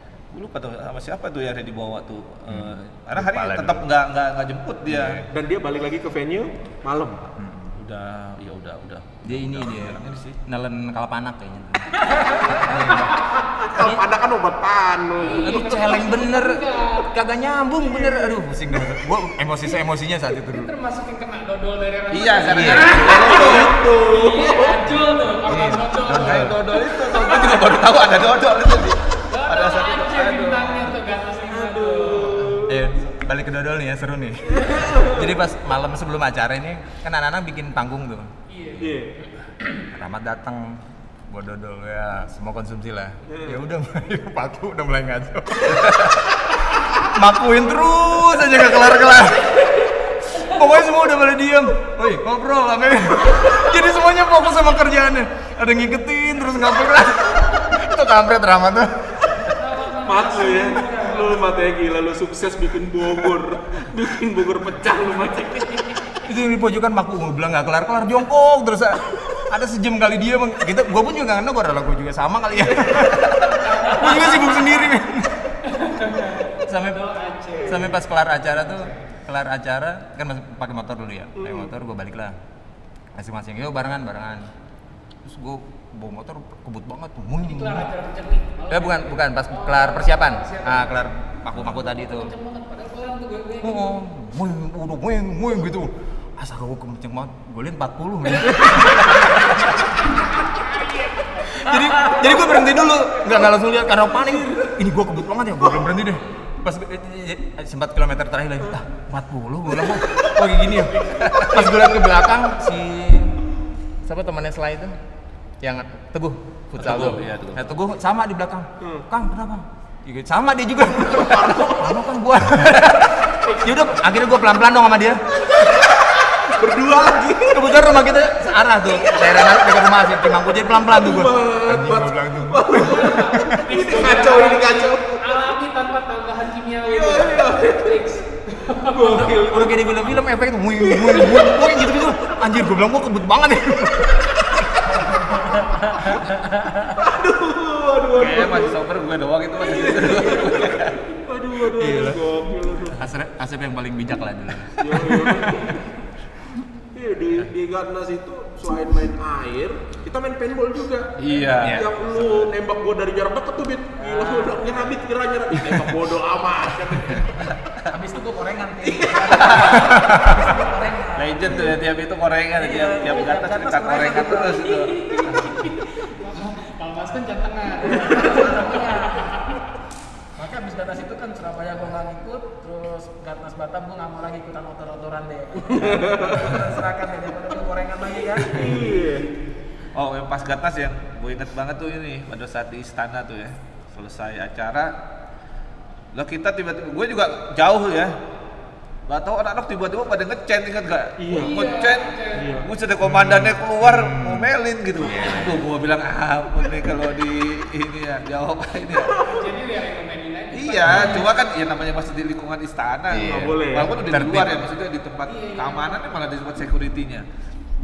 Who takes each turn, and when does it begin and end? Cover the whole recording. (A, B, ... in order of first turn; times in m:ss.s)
0:00.3-0:05.2 A
0:02.5-0:03.8 B
0:04.9-0:05.3 B
0:05.3-0:07.3 C
0:07.4-0:07.7 B
0:07.7-0:10.4 A
0:09.2-0:14.0 B
0:13.4-0:15.6 C
0:15.2-0:17.1 D
0:15.3-0:20.7 B
0:18.0-0:18.3 C
0:20.4-0:27.6 D
0:22.1-0:23.7 A
0:22.5-0:23.0 B
0:23.0-0:24.9 C
0:25.4-0:26.6 B
0:26.0-0:31.0 A
0:29.3-0:33.2 D
0:31.5-0:32.9 C
0:32.7-0:38.3 B
0:34.4-0:35.4 C
0:38.5-0:39.7 D
0:38.8-0:39.2 C
0:39.9-0:46.3 B
0:43.3-0:43.6 C
0:46.8-0:59.4 B
0:59.5-1:01.6 D
1:00.0-1:06.1 C
1:06.2-1:15.6 B
1:12.6-1:13.4 C
1:13.6-1:14.7 D
1:15.6-1:19.1 D
1:16.6-1:17.0 B
1:17.6-1:17.9 C
1:17.6-1:22.4 B
1:21.4-1:21.7 C
1:23.1-1:24.5 B
1:25.2-1:27.9 B
1:27.4-1:34.0 D
1:28.7-1:32.3 B
1:33.6-1:40.1 B
1:40.0-1:42.3 D
1:41.5-1:53.4 B
1:44.1-1:44.8 C
1:51.2-1:51.7 A
1:54.0-1:55.0 B
1:55.6-2:05.2 B
1:56.8-1:57.7 A
1:58.8-1:59.0 C
2:01.0-2:02.0 C
2:03.2-2:04.1 D
2:06.4-2:07.9 C
2:07.5-2:13.8 B
2:09.0-2:09.8 C
2:10.5-2:15.2 C
2:12.7-2:19.4 D
2:16.8-2:18.2 C
2:18.8-2:20.2 C
2:19.4-2:24.8 B
2:20.8-2:21.8 C
2:24.9-2:27.0 E
2:26.8-2:28.8 C
2:28.1-2:31.0 A
2:29.6-2:33.0 C
2:31.7-2:32.2 B
2:32.9-2:35.6 B
2:34.8-2:36.0 C
2:36.9-2:47.4 C
2:41.2-2:42.5 A
2:41.6-2:41.9 B
2:44.0-2:44.6 E
2:47.9-2:51.7 E
2:48.9-2:49.6 C
2:49.3-2:50.0 A
2:50.0-2:50.4 B
2:51.2-2:55.6 A
2:52.6-2:54.7 E
2:54.3-2:59.6 D
2:57.8-2:59.3 E
3:00.4-3:08.9 E
3:05.7-3:06.7 C
3:08.4-3:09.3 C
3:09.9-3:15.0 A
3:16.1-3:18.2 A
3:19.1-3:29.2 A
3:21.2-3:21.7 C
3:21.3-3:22.5 D
3:22.3-3:22.7 C
3:23.0-3:25.6 B
3:28.9-3:29.5 C
3:29.2-3:31.3 D
3:30.5-3:37.2 A
3:33.1-3:34.6 B
3:33.2-3:34.1 C
3:35.2-3:36.2 D